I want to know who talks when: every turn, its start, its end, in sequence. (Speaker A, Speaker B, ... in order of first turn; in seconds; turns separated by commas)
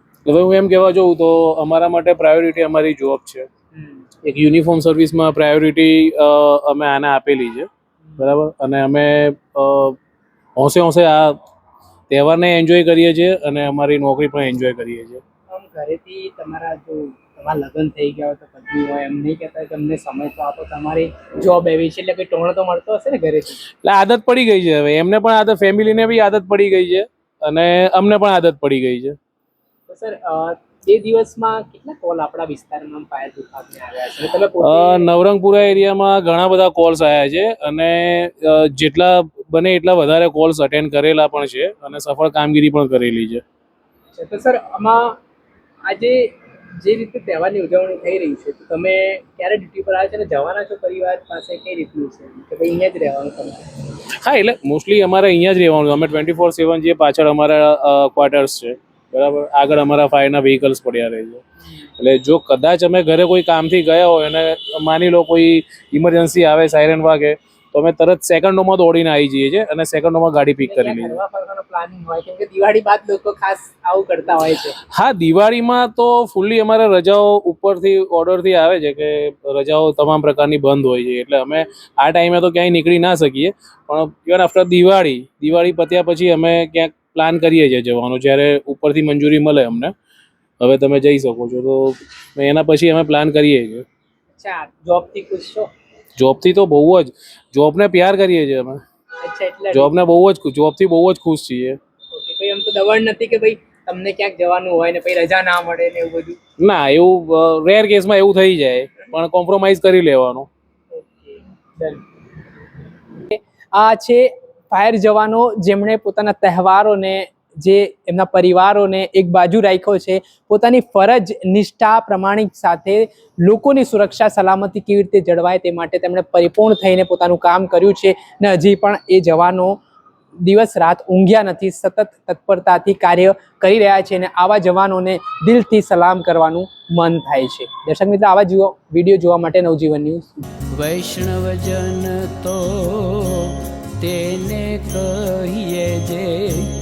Speaker A: 0.2-3.5, Speaker B: 3.7-4.0, Speaker A: 4.2-7.7, Speaker B: 8.0-8.3, Speaker A: 8.2-10.0, Speaker A: 10.6-11.4, Speaker A: 12.1-15.2, Speaker B: 15.5-23.6, Speaker A: 23.8-29.1, Speaker B: 29.9-35.8, Speaker A: 34.6-43.4, Speaker B: 44.1-45.2, Speaker B: 45.9-53.7, Speaker A: 54.1-61.4, Speaker A: 62.0-71.2, Speaker B: 70.6-74.8, Speaker A: 74.9-89.9, Speaker A: 90.6-93.8, Speaker B: 94.3-95.7, Speaker A: 96.2-98.8, Speaker B: 99.2-99.9, Speaker A: 99.7-101.8, Speaker B: 102.1-106.4, Speaker A: 106.6-110.5, Speaker B: 110.9-112.0, Speaker B: 113.2-129.8, Speaker B: 130.4-140.3, Speaker C: 140.7-146.7